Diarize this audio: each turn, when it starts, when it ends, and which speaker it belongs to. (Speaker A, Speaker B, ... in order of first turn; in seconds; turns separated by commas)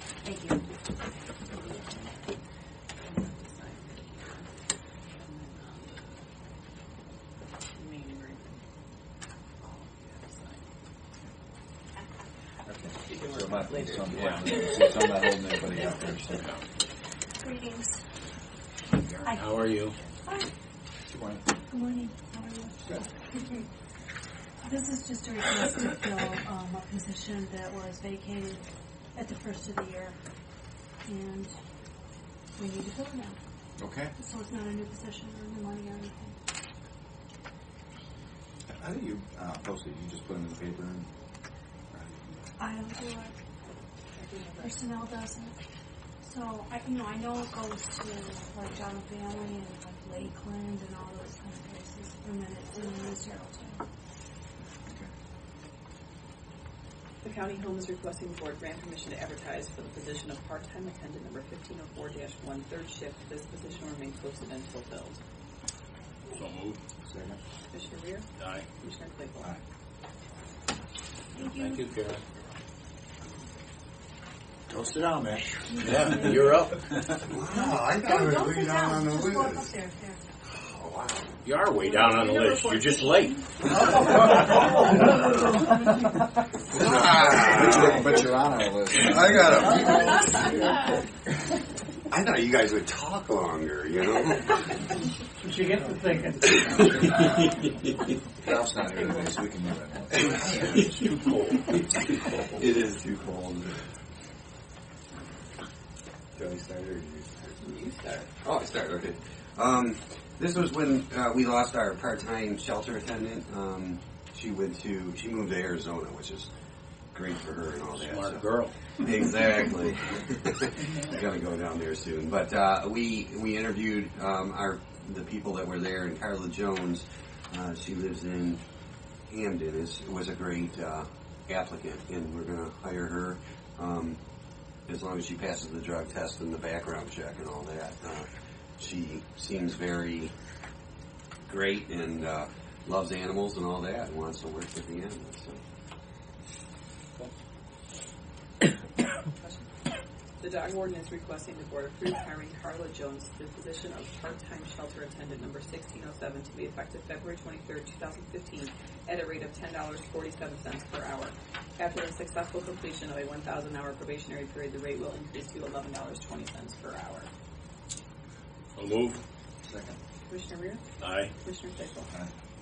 Speaker A: 0.2-0.6, Speaker B: 3.0-4.5, Speaker B: 5.1-6.2, Speaker B: 7.8-8.6, Speaker B: 9.6-10.6, Speaker C: 12.7-16.4, Speaker B: 13.0-14.4, Speaker A: 17.4-18.0, Speaker A: 19.2-19.6, Speaker D: 19.3-20.0, Speaker C: 21.1-21.5, Speaker A: 21.7-23.1, Speaker A: 24.6-28.6, Speaker A: 29.1-30.2, Speaker A: 31.1-31.6, Speaker A: 32.5-33.4, Speaker C: 33.8-34.1, Speaker A: 34.2-36.4, Speaker C: 38.7-41.1, Speaker C: 41.9-42.3, Speaker A: 42.6-43.4, Speaker B: 44.1-44.9, Speaker A: 44.6-45.5, Speaker A: 46.2-53.8, Speaker B: 57.2-65.2, Speaker D: 66.3-66.8, Speaker C: 67.1-67.4, Speaker B: 67.7-68.3, Speaker D: 68.4-68.7, Speaker B: 68.8-69.5, Speaker A: 71.3-71.9, Speaker D: 71.4-72.2, Speaker C: 74.7-75.4, Speaker A: 75.7-76.6, Speaker D: 75.8-77.1, Speaker E: 77.2-79.7, Speaker A: 77.4-80.2, Speaker E: 80.5-81.4, Speaker D: 81.4-83.4, Speaker A: 82.0-83.2, Speaker E: 86.8-88.3, Speaker C: 86.8-89.9, Speaker E: 89.4-90.1, Speaker E: 92.1-94.8, Speaker E: 96.5-97.5, Speaker C: 98.4-101.0, Speaker D: 100.2-101.8, Speaker E: 102.0-103.8, Speaker C: 106.4-107.0, Speaker B: 107.6-108.3, Speaker E: 108.4-116.5, Speaker E: 117.1-128.6, Speaker D: 117.9-118.8, Speaker E: 129.3-134.2, Speaker E: 134.9-140.3, Speaker E: 141.5-145.6, Speaker B: 149.3-149.7, Speaker B: 150.4-167.3, Speaker D: 168.8-169.2, Speaker C: 169.6-170.0, Speaker B: 170.3-170.8, Speaker D: 171.0-171.3, Speaker B: 171.4-172.1